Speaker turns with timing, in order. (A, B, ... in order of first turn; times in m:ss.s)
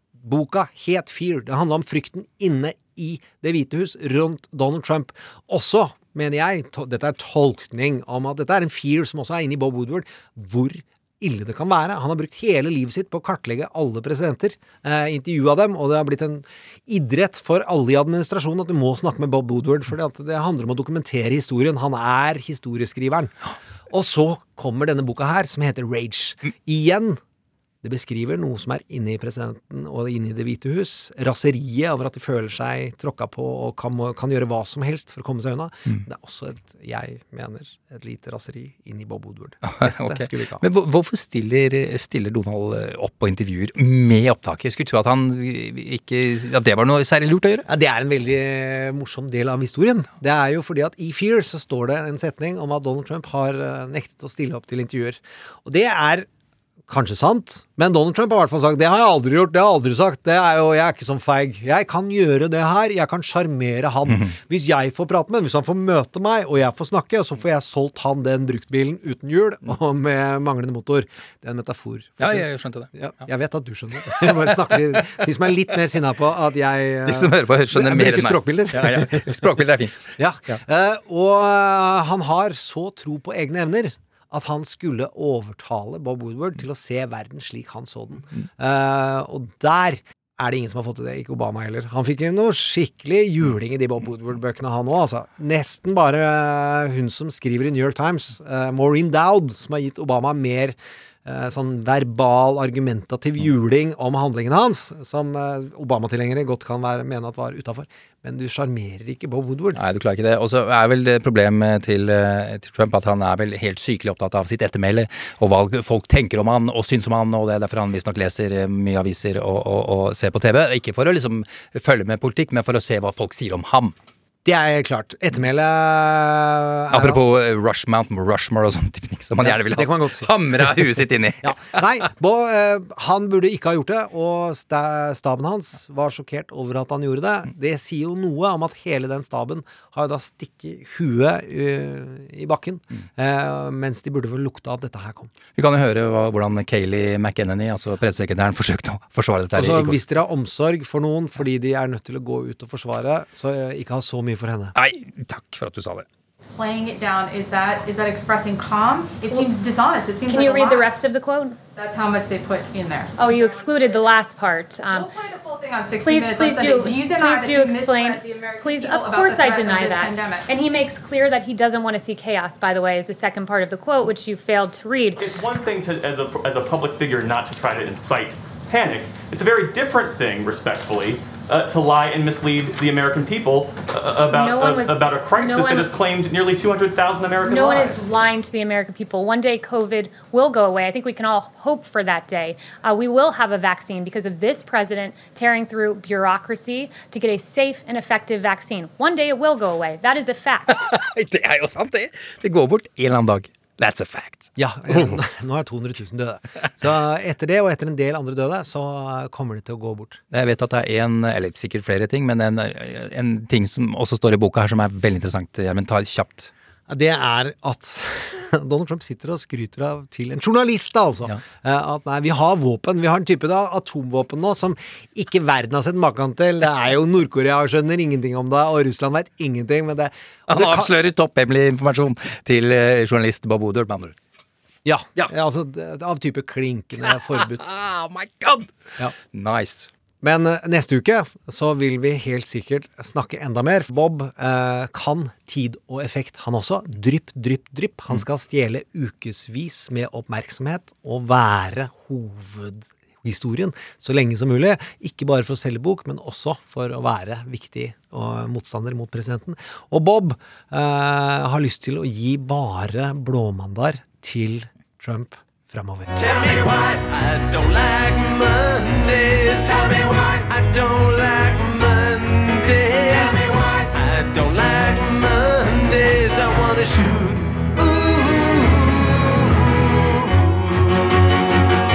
0:00.2-0:23.3 A
0:23.9-0:27.2 A
0:27.8-0:40.6 A
0:39.6-0:47.7 B
0:47.7-0:56.3 A
0:56.9-1:19.3 A
1:12.2-1:12.9 B
1:14.1-1:14.4 B
1:17.1-1:20.6 B
1:20.2-1:49.8 A
1:49.8-2:04.0 B
2:04.4-2:07.2 A
2:06.9-2:11.8 B
2:09.4-2:10.9 A
2:11.4-2:25.3 A
2:25.6-2:30.0 B
2:29.6-2:34.8 A
2:34.8-2:36.1 B
2:36.6-2:40.9 C
2:39.3-2:39.6 D
2:40.2-2:41.6 D
2:41.8-2:44.0 C
2:43.2-2:45.1 D
2:44.9-2:50.6 C
2:46.0-2:55.2 D
2:55.2-3:08.2 E
3:04.2-3:05.9 D
3:07.4-3:20.8 D
3:20.7-3:24.5 B
3:24.6-3:30.2 A
3:30.3-3:36.5 B
3:36.9-3:50.9 A
3:50.5-3:54.2 B
3:54.8-3:57.7 A
3:57.3-3:58.8 B
3:59.3-3:59.9 B
4:00.2-4:26.1 A
4:26.2-4:41.2 F